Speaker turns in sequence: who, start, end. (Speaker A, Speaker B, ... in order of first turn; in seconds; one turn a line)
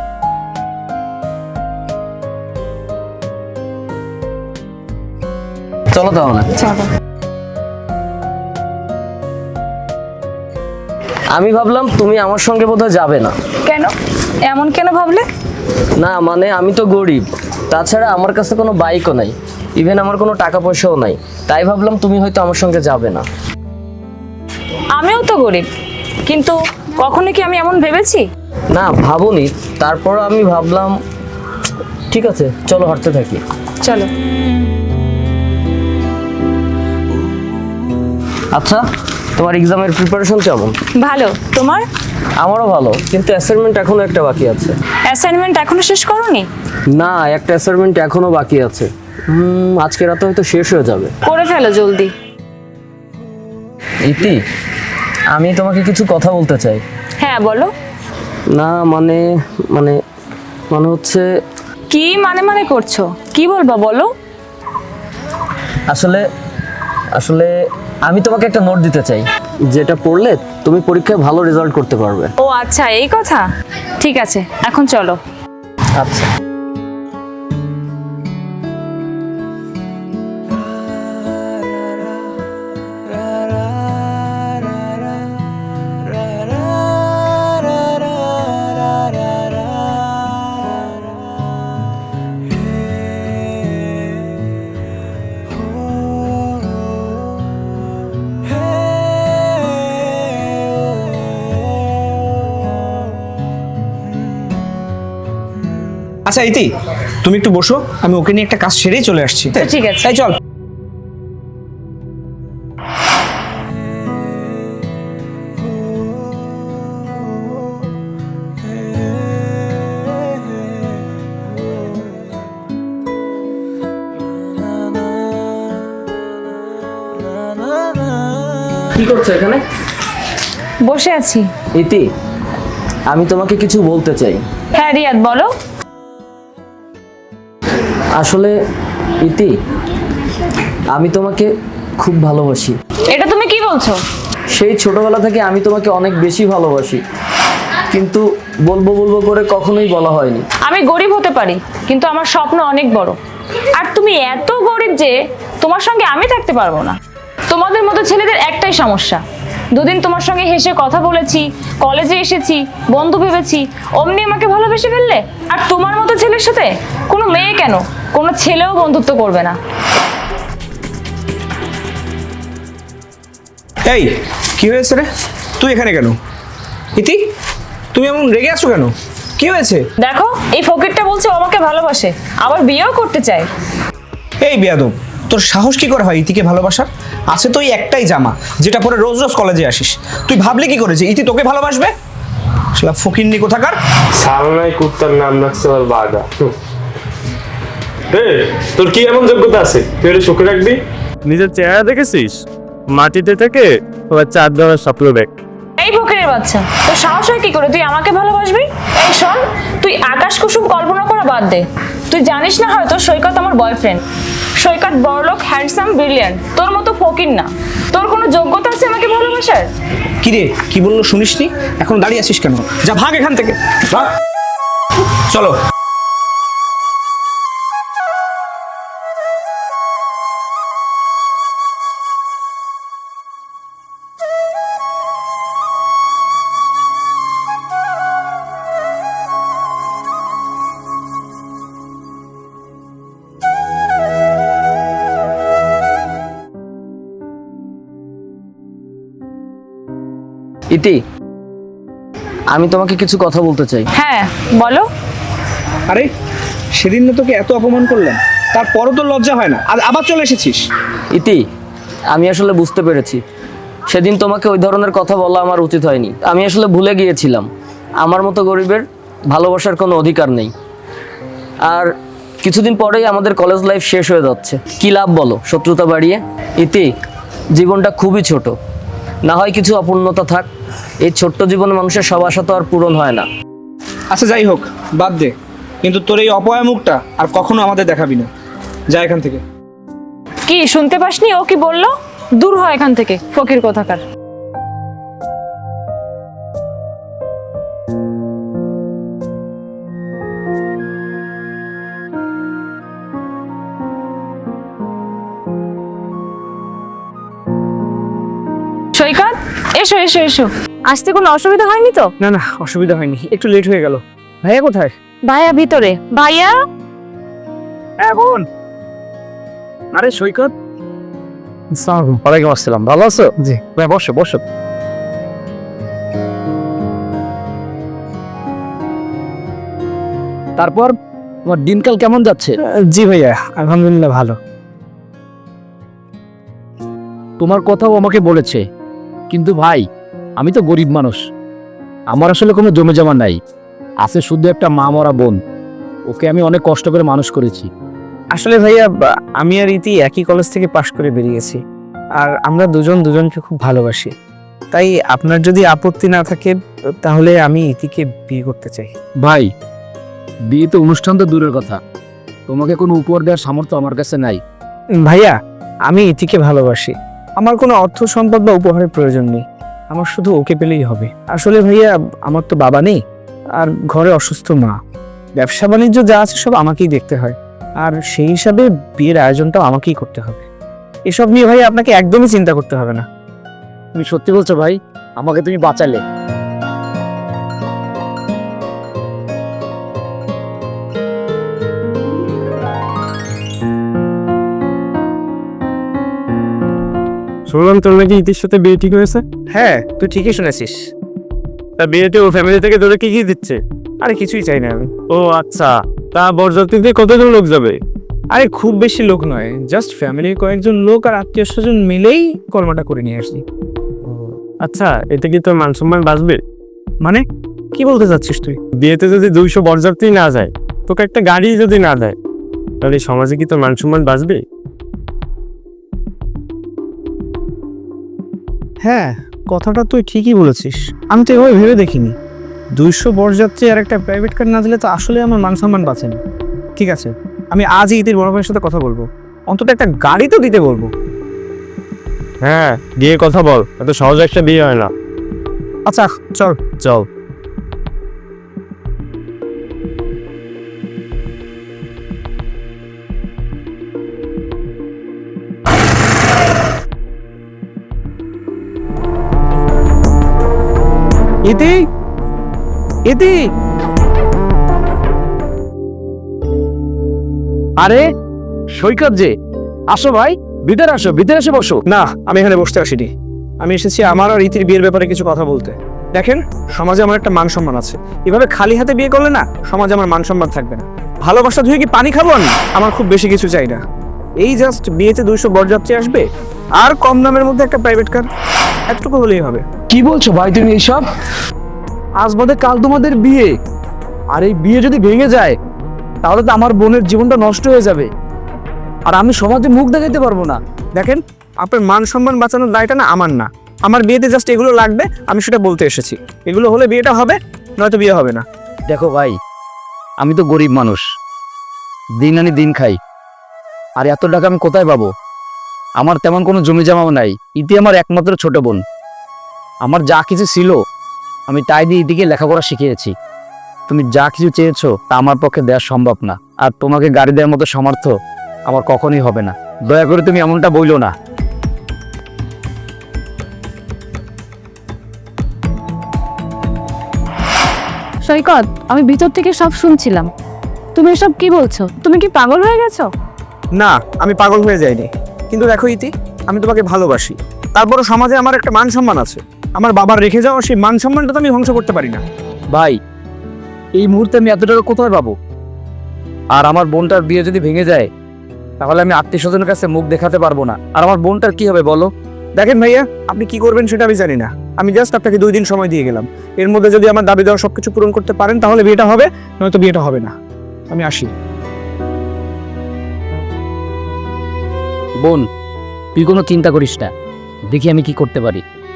Speaker A: 5.9-6.5
Speaker B: 6.5-6.9
Speaker A: 11.3-13.3
Speaker B: 13.6-13.9
Speaker B: 14.4-15.2
Speaker A: 16.0-23.2
Speaker B: 24.9-25.7
Speaker B: 26.2-28.2
Speaker A: 28.7-31.0
Speaker A: 32.1-33.4
Speaker B: 33.8-34.1
Speaker A: 38.5-38.8
Speaker A: 39.3-40.8
Speaker B: 41.0-41.8
Speaker A: 42.4-44.8
Speaker B: 45.1-46.5
Speaker A: 46.9-51.1
Speaker B: 51.2-52.1
Speaker A: 54.0-54.4
Speaker A: 55.3-56.8
Speaker B: 57.2-57.7
Speaker A: 58.5-60.0
Speaker A: 60.7-61.2
Speaker B: 61.9-64.1
Speaker A: 65.9-66.2
Speaker A: 67.1-67.5
Speaker A: 68.0-72.3
Speaker B: 72.4-73.4
Speaker B: 74.0-75.2
Speaker A: 76.0-76.3
Speaker C: 106.2-106.7
Speaker C: 107.2-110.4
Speaker B: 109.6-110.1
Speaker A: 128.9-129.6
Speaker B: 130.8-131.5
Speaker A: 131.7-132.1
Speaker A: 133.1-134.4
Speaker B: 134.7-135.5
Speaker A: 138.1-138.5
Speaker A: 139.2-139.5
Speaker A: 140.9-142.8
Speaker B: 143.1-144.0
Speaker A: 144.5-147.0
Speaker A: 147.9-150.4
Speaker B: 150.6-153.2
Speaker B: 153.7-157.0
Speaker B: 157.5-159.2
Speaker B: 159.7-169.6
Speaker C: 173.8-175.1
Speaker C: 175.6-176.1
Speaker C: 177.9-179.8
Speaker B: 180.0-183.5
Speaker C: 184.4-191.9
Speaker C: 192.8-193.8
Speaker D: 194.2-196.5
Speaker D: 198.1-205.4
Speaker B: 205.8-214.0
Speaker B: 214.6-219.7
Speaker C: 220.2-224.1
Speaker C: 225.3-225.5
Speaker A: 250.7-251.0
Speaker A: 252.5-253.9
Speaker B: 253.9-254.9
Speaker C: 256.8-260.6
Speaker A: 261.1-261.4
Speaker A: 262.1-263.2
Speaker A: 263.9-267.5
Speaker A: 268.0-270.5
Speaker A: 272.4-276.9
Speaker A: 277.5-278.6
Speaker A: 279.2-280.5
Speaker A: 281.0-283.3
Speaker C: 284.1-288.3
Speaker C: 288.9-289.4
Speaker B: 290.5-294.0
Speaker B: 308.9-312.1
Speaker E: 310.9-311.4
Speaker C: 312.2-314.9
Speaker B: 315.3-316.5
Speaker F: 318.0-318.4
Speaker F: 319.9-320.5
Speaker F: 321.8-324.4
Speaker F: 330.6-332.6
Speaker C: 332.9-334.4
Speaker F: 337.4-338.6
Speaker F: 339.3-339.9
Speaker F: 340.4-341.2
Speaker F: 342.1-343.4
Speaker F: 344.0-345.4
Speaker F: 346.1-347.7
Speaker C: 348.3-351.6
Speaker C: 352.1-354.1
Speaker C: 354.7-358.9
Speaker F: 359.2-359.5
Speaker F: 360.5-361.8
Speaker F: 362.5-364.4
Speaker C: 365.0-365.4
Speaker C: 365.9-373.0
Speaker C: 373.6-374.8
Speaker C: 375.4-380.4
Speaker C: 381.1-383.1
Speaker F: 383.9-386.0
Speaker D: 397.5-399.2
Speaker C: 399.5-400.9
Speaker D: 401.8-403.6
Speaker C: 404.0-404.9
Speaker D: 405.1-407.8
Speaker C: 408.3-413.4
Speaker D: 414.1-416.4
Speaker C: 417.0-418.6
Speaker D: 418.8-422.1
Speaker D: 422.8-424.4
Speaker C: 428.8-432.1
Speaker C: 432.8-436.2
Speaker C: 436.8-440.9
Speaker D: 442.4-444.9
Speaker C: 445.9-446.6
Speaker D: 446.8-447.1
Speaker C: 461.4-461.9
Speaker C: 463.1-463.5
Speaker F: 467.8-468.1
Speaker F: 468.7-469.3
Speaker F: 469.9-471.8
Speaker C: 471.9-473.1
Speaker C: 473.6-483.8
Speaker C: 484.4-486.3
Speaker C: 486.8-488.2
Speaker C: 488.9-489.6
Speaker F: 489.9-491.0
Speaker F: 492.2-493.5
Speaker F: 494.3-495.6
Speaker F: 496.2-498.1
Speaker F: 499.1-500.6
Speaker C: 500.9-508.4
Speaker F: 508.9-509.4
Speaker F: 510.2-511.0
Speaker F: 512.2-513.0
Speaker F: 514.0-515.1
Speaker F: 516.0-518.8
Speaker F: 519.8-520.8
Speaker F: 521.5-523.1
Speaker F: 523.9-528.1
Speaker F: 528.7-531.1
Speaker E: 538.3-540.3
Speaker B: 539.0-540.2
Speaker E: 541.0-543.0
Speaker B: 541.0-543.0
Speaker C: 543.7-552.2
Speaker F: 552.7-553.0
Speaker F: 554.0-555.3
Speaker F: 556.5-558.1
Speaker F: 558.8-562.1
Speaker C: 562.5-570.3
Speaker C: 570.9-571.3
Speaker F: 576.1-577.1
Speaker F: 577.7-578.6